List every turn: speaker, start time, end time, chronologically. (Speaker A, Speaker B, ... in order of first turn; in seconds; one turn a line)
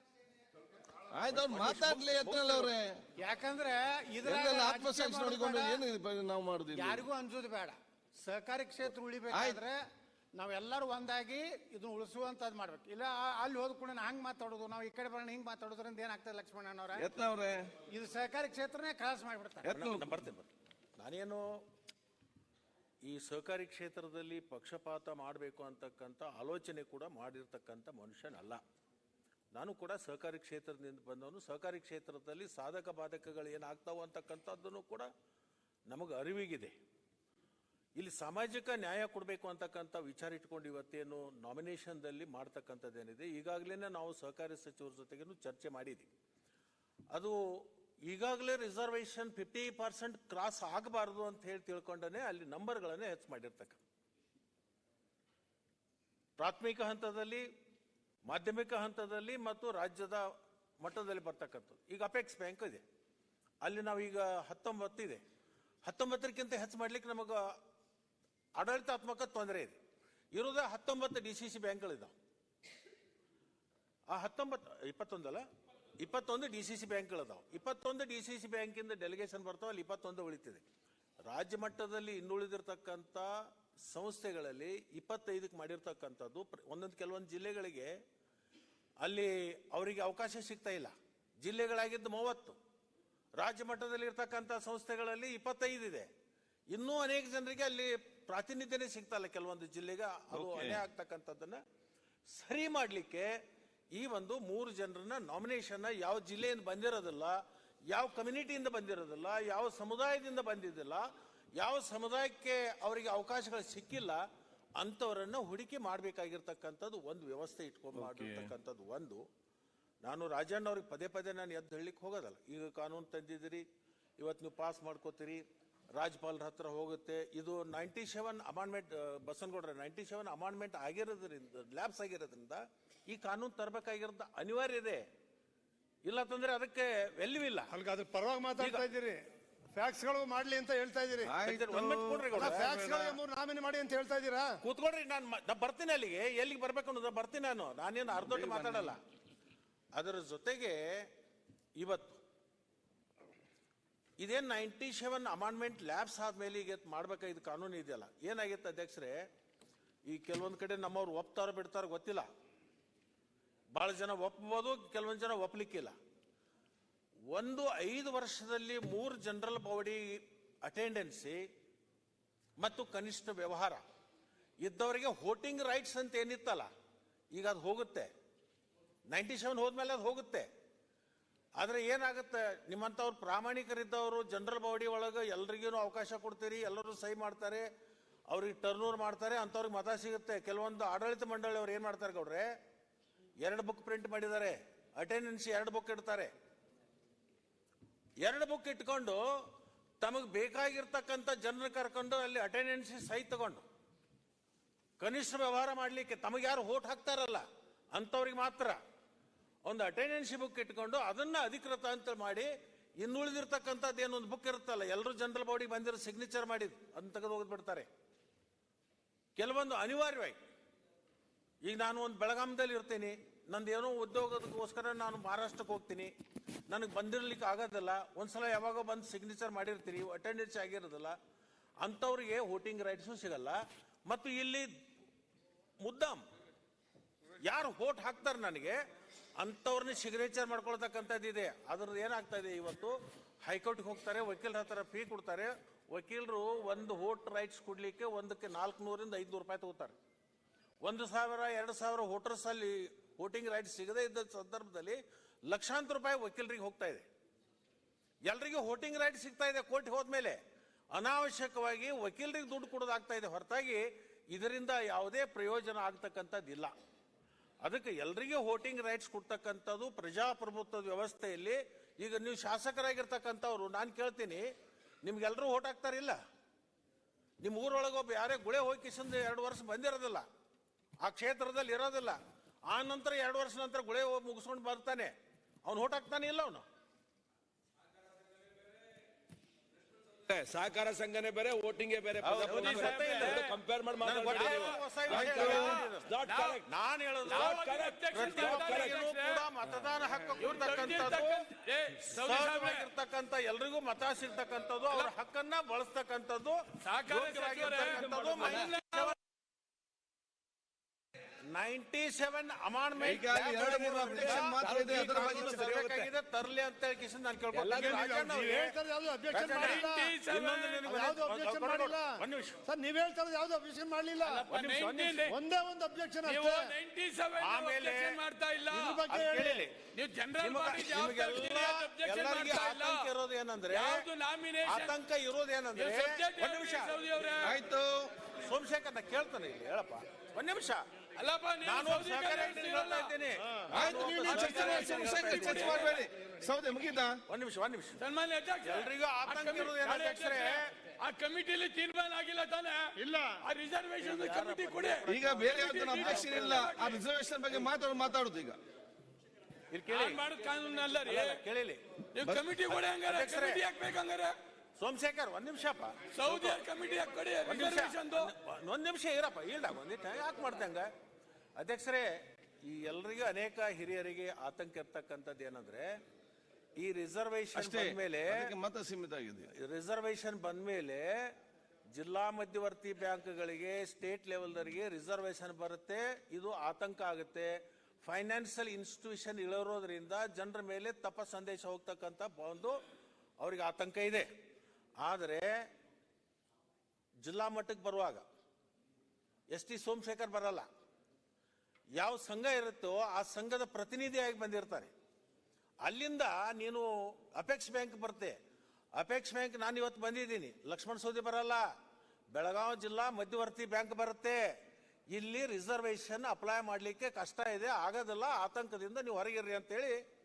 Speaker A: 1.1-3.0
Speaker B: 1.3-2.7
Speaker C: 3.2-5.8
Speaker A: 4.2-7.0
Speaker C: 6.7-17.1
Speaker A: 8.9-9.6
Speaker A: 17.0-17.7
Speaker C: 17.9-19.7
Speaker A: 19.6-20.2
Speaker B: 19.7-21.4
Speaker B: 23.0-28.6
Speaker B: 29.5-35.1
Speaker B: 35.9-36.8
Speaker B: 38.0-46.1
Speaker B: 47.1-47.4
Speaker B: 48.0-53.8
Speaker B: 56.4-57.5
Speaker B: 58.3-60.3
Speaker B: 60.8-62.8
Speaker B: 63.6-65.2
Speaker B: 65.8-67.5
Speaker B: 68.6-69.8
Speaker B: 70.3-72.1
Speaker B: 74.1-75.5
Speaker B: 76.0-80.7
Speaker B: 81.3-83.3
Speaker B: 83.9-87.9
Speaker B: 89.0-92.6
Speaker B: 93.4-96.1
Speaker B: 96.7-101.6
Speaker A: 100.3-100.8
Speaker B: 102.3-103.3
Speaker B: 103.9-114.2
Speaker B: 114.8-119.2
Speaker A: 118.0-118.5
Speaker B: 120.0-123.7
Speaker B: 124.2-125.4
Speaker B: 126.0-135.0
Speaker B: 136.1-137.7
Speaker D: 137.7-139.2
Speaker B: 138.6-138.8
Speaker D: 139.7-141.3
Speaker A: 141.2-142.4
Speaker B: 141.4-143.2
Speaker D: 142.3-144.6
Speaker B: 144.6-149.0
Speaker A: 148.2-148.9
Speaker B: 149.9-151.1
Speaker B: 151.8-152.2
Speaker B: 154.2-159.3
Speaker B: 160.1-162.3
Speaker B: 163.8-165.9
Speaker B: 167.3-171.4
Speaker B: 172.6-173.8
Speaker B: 174.6-176.7
Speaker B: 177.3-178.1
Speaker B: 179.1-180.5
Speaker B: 181.6-187.7
Speaker B: 188.3-192.5
Speaker B: 193.4-196.3
Speaker B: 198.2-199.2
Speaker B: 200.0-203.6
Speaker B: 205.0-208.8
Speaker B: 209.7-212.5
Speaker B: 213.0-217.9
Speaker B: 219.4-220.4
Speaker B: 221.6-226.1
Speaker B: 226.7-231.2
Speaker B: 231.8-234.7
Speaker B: 235.8-236.2
Speaker B: 237.4-238.8
Speaker B: 239.4-249.9
Speaker B: 250.8-257.1
Speaker B: 258.2-260.4
Speaker B: 260.9-266.7
Speaker B: 267.6-274.5
Speaker B: 275.0-276.2
Speaker B: 277.4-280.3
Speaker B: 281.0-282.2
Speaker B: 282.7-285.1
Speaker B: 285.6-286.6
Speaker E: 290.2-296.6
Speaker F: 292.3-293.6
Speaker B: 292.4-293.5
Speaker B: 294.0-296.1
Speaker F: 294.3-296.6
Speaker A: 295.1-295.8
Speaker B: 296.7-301.5
Speaker E: 297.2-299.0
Speaker F: 297.2-299.4
Speaker F: 300.4-302.9
Speaker B: 302.1-309.2
Speaker F: 306.8-309.1
Speaker B: 311.5-318.8
Speaker A: 313.0-315.8
Speaker E: 314.3-316.1
Speaker E: 317.6-318.0
Speaker D: 317.6-320.2
Speaker B: 319.3-322.6
Speaker F: 319.4-320.8
Speaker D: 320.9-324.5
Speaker F: 324.2-325.4
Speaker B: 324.5-325.2
Speaker D: 325.2-326.7
Speaker F: 326.2-329.1
Speaker B: 327.4-328.2
Speaker D: 328.7-329.6
Speaker B: 329.1-329.8
Speaker F: 329.8-333.1
Speaker B: 330.4-334.1
Speaker F: 333.7-335.0
Speaker B: 334.6-337.1
Speaker F: 335.8-337.6
Speaker A: 337.4-338.1
Speaker B: 338.4-340.9
Speaker F: 341.2-343.1
Speaker B: 341.6-346.0
Speaker A: 343.7-347.2
Speaker F: 344.2-345.9
Speaker B: 347.3-348.0
Speaker F: 348.0-357.1
Speaker B: 348.6-350.7
Speaker B: 354.0-356.7
Speaker A: 355.1-358.6
Speaker B: 359.7-360.2
Speaker F: 359.9-361.4
Speaker B: 361.0-361.8
Speaker F: 362.1-364.4
Speaker A: 362.2-362.6
Speaker B: 363.0-363.6
Speaker B: 364.8-366.6
Speaker F: 366.1-368.3
Speaker B: 367.4-370.9
Speaker B: 371.6-375.9
Speaker B: 376.8-378.5
Speaker A: 377.6-379.5
Speaker B: 379.5-381.3
Speaker B: 381.9-392.8
Speaker B: 393.4-394.3
Speaker B: 395.0-395.5
Speaker B: 397.2-398.2
Speaker B: 399.5-400.7
Speaker B: 402.0-404.9
Speaker B: 405.8-408.4
Speaker B: 409.0-411.6
Speaker B: 412.3-414.5
Speaker B: 415.1-420.0